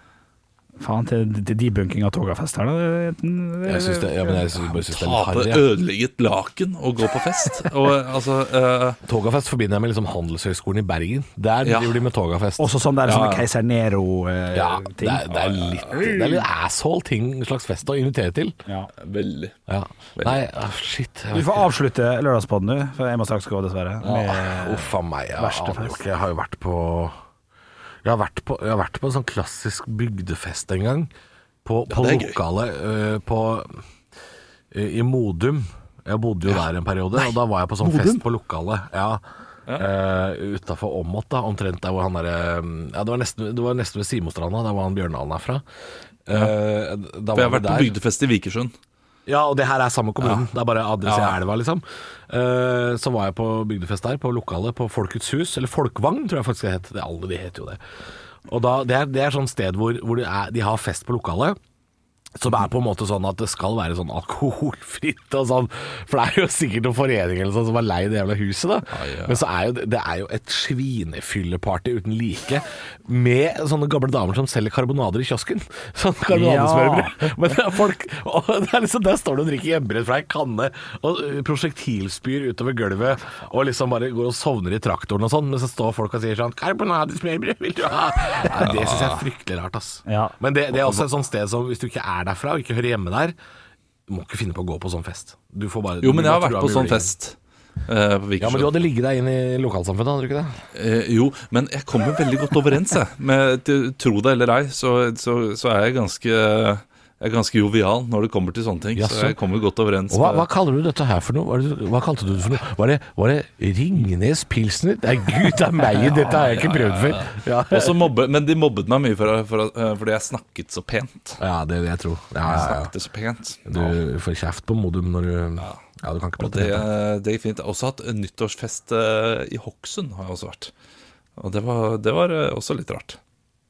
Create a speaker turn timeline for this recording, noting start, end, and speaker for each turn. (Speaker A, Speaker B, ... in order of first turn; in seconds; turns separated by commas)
Speaker A: 0.8-4.6, Speaker B: 3.7-5.7, Speaker C: 4.9-9.0, Speaker B: 9.1-13.4, Speaker C: 11.6-12.1, Speaker A: 12.6-15.3, Speaker C: 13.1-13.4, Speaker B: 14.5-18.6, Speaker C: 15.4-15.9, Speaker A: 15.9-16.4, Speaker C: 19.0-19.6, Speaker B: 19.7-21.7, Speaker C: 20.2-20.4, Speaker A: 21.3-26.0, Speaker B: 24.0-27.1, Speaker B: 28.0-31.1, Speaker B: 31.6-33.8, Speaker C: 31.9-32.4, Speaker B: 34.7-39.2, Speaker C: 37.8-38.2, Speaker B: 39.8-45.6, Speaker B: 46.3-48.0, Speaker C: 47.3-48.7, Speaker B: 49.3-57.8, Speaker C: 51.0-51.4, Speaker B: 58.5-61.6, Speaker B: 62.4-93.3, Speaker C: 68.9-69.4, Speaker A: 76.3-77.3, Speaker C: 88.6-89.2, Speaker A: 90.1-91.0, Speaker B: 94.1-97.1, Speaker C: 96.0-97.4, Speaker C: 97.9-98.8, Speaker B: 98.4-100.6, Speaker C: 100.7-110.5, Speaker B: 109.0-109.4, Speaker B: 110.1-118.1, Speaker C: 116.1-121.4, Speaker B: 121.4-122.9, Speaker C: 122.5-123.9, Speaker B: 123.7-126.9, Speaker C: 126.4-130.7, Speaker C: 131.4-133.2